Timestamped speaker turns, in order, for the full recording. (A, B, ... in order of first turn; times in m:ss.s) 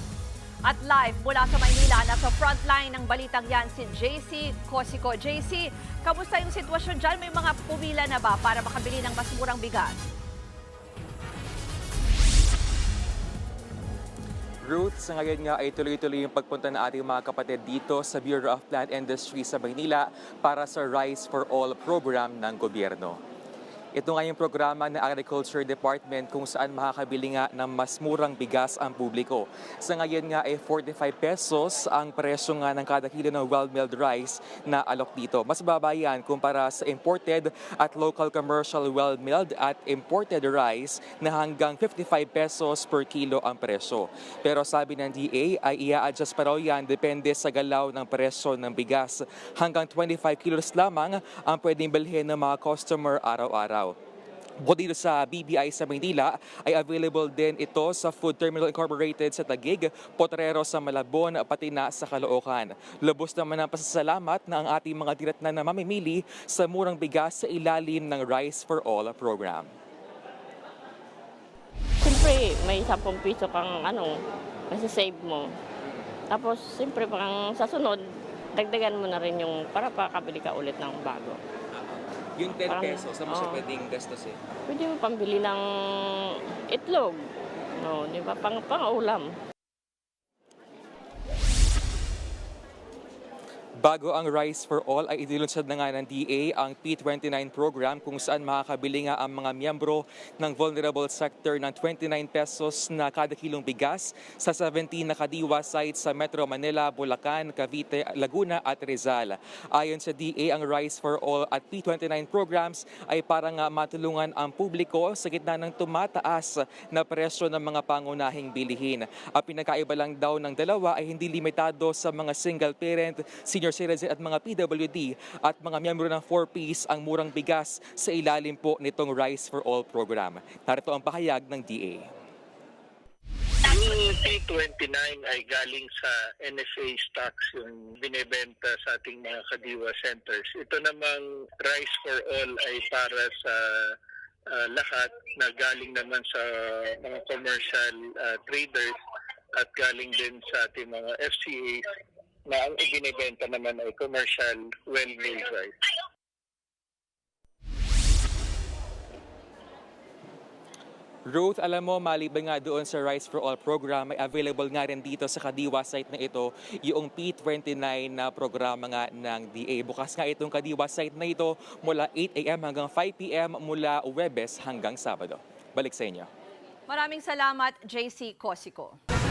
0:00.6-0:10.0 A
0:14.6-0:23.2 B
0:23.9-0:54.0 B
0:54.6-1:09.7 B
1:12.0-1:14.1 C
1:14.7-1:15.5 C
1:16.3-1:18.0 C
1:18.5-1:21.4 C
1:21.7-1:24.4 B
1:22.6-1:23.6 C
1:24.7-1:27.2 C
1:27.8-1:29.2 C
1:33.8-2:12.1 B
2:13.6-2:24.0 D
2:24.5-2:29.0 D
2:29.5-2:31.8 D
2:32.4-2:35.7 D
2:41.3-2:56.3 B
2:56.9-2:59.0 A